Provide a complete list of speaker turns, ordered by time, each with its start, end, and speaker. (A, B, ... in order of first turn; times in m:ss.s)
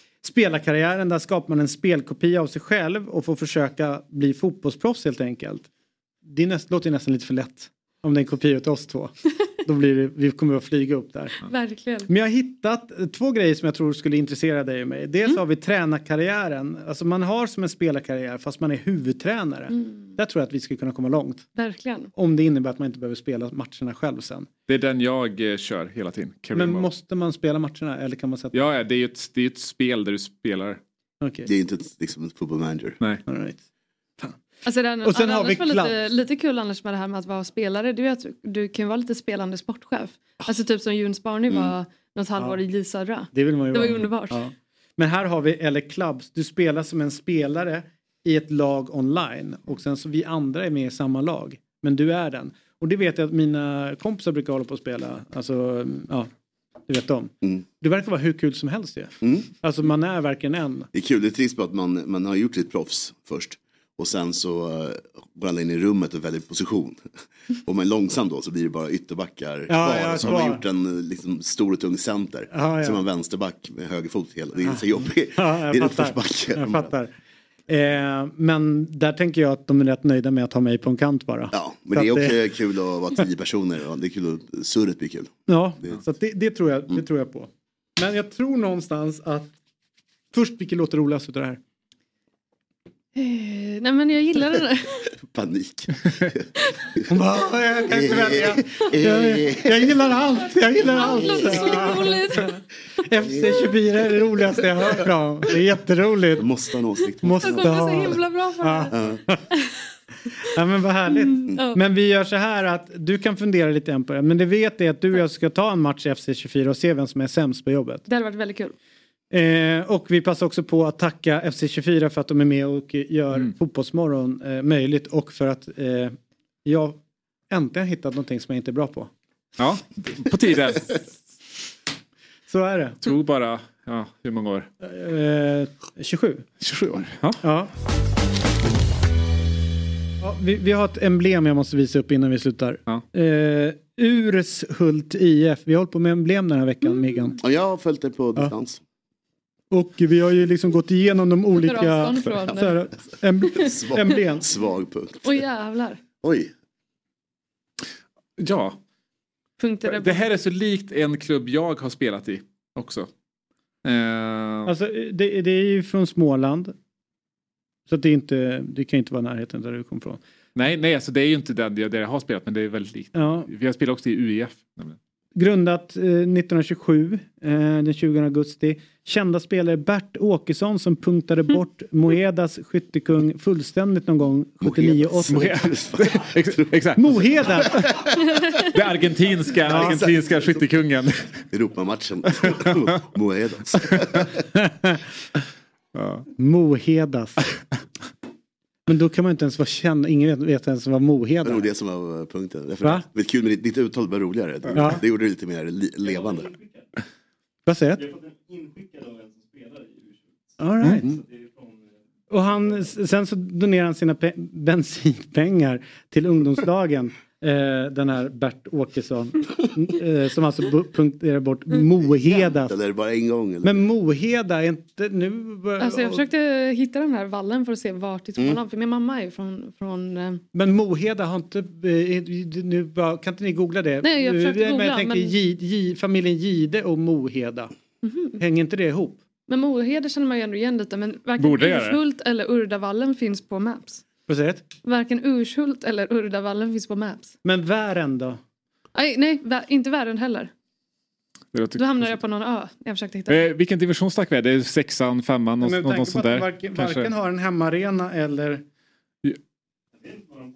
0:00.2-0:05.7 A
0:06.2-0:11.4 A
0:11.4-0:12.1 B
0:12.1-0:21.5 A
0:19.7-0:20.0 B
0:21.6-0:22.1 B
0:22.1-0:24.5 A
0:24.7-0:26.9 C
0:26.5-0:28.6 A
0:28.5-0:30.8 C
0:31.2-0:31.5 A
0:31.4-0:33.0 D
0:33.3-0:33.6 A
0:34.6-0:44.4 B
0:35.0-0:35.9 A
0:41.5-0:41.7 D
0:43.3-0:56.3 A
0:56.9-1:00.9 A
0:59.2-0:59.5 D
1:00.9-1:07.0 D
1:07.6-1:16.9 D
1:09.7-1:10.6 A
1:12.5-1:13.0 A
1:15.3-1:17.1 A
1:17.7-1:22.4 A
1:21.5-1:26.0 D
1:25.5-1:29.5 A
1:30.3-1:31.6 A
1:33.2-1:35.0 B
1:35.2-1:36.5 D
1:37.1-1:46.4 A
1:37.9-1:40.2 D
1:40.8-1:42.6 B
1:40.8-1:42.2 D
1:43.2-1:43.6 D
1:46.3-1:48.2 D
1:47.2-1:49.4 A
1:47.4-1:49.0 B
1:48.9-1:49.2 D
1:50.5-1:58.0 A
1:51.2-1:51.8 B
1:58.1-1:58.7 B
1:59.3-2:07.0 A
2:07.5-2:09.1 A
2:09.6-2:11.1 C
2:12.5-2:13.0 A
2:13.0-2:14.7 C
2:14.8-2:16.5 A
2:16.6-2:17.4 C
2:17.4-2:17.7 A
2:20.2-2:27.4 A
2:27.4-2:28.8 D
2:29.7-2:34.4 A
2:31.6-2:32.8 B
2:33.6-2:35.4 D
2:35.2-2:36.0 B
2:36.2-2:36.5 D
2:38.4-2:38.8 C
2:39.6-2:40.2 B
2:39.8-2:43.1 C
2:43.8-2:44.7 C
2:44.7-2:46.7 A
2:47.9-2:50.2 A
2:50.6-2:55.0 C
2:53.2-2:53.5 A
2:55.4-3:05.6 A
3:04.6-3:06.9 D
3:05.3-3:07.3 C
3:07.0-3:07.8 A
3:07.4-3:08.4 D
3:08.7-3:11.4 C
3:09.6-3:10.7 D
3:09.7-3:10.0 A
3:11.5-3:14.4 D
3:14.6-3:15.0 A
3:16.0-3:16.3 C
3:16.4-3:17.4 A
3:18.9-3:21.6 A
3:21.4-3:26.6 D
3:24.7-3:25.0 A
3:27.7-3:28.1 A
3:30.6-3:31.2 A
3:32.3-3:42.7 A
3:42.1-3:43.9 D
3:43.6-3:46.2 A
3:45.8-3:50.4 B
3:50.5-3:57.7 A
3:54.0-3:55.4 B
3:58.0-3:58.4 B
3:58.4-3:59.2 A
3:59.5-4:04.0 B
4:01.4-4:02.0 C
4:04.3-4:04.6 A
4:04.8-4:07.3 B
4:07.4-4:08.4 A
4:09.0-4:10.5 B
4:11.5-4:12.2 C
4:11.8-4:13.5 B
4:13.3-4:17.1 C
4:15.6-4:18.6 A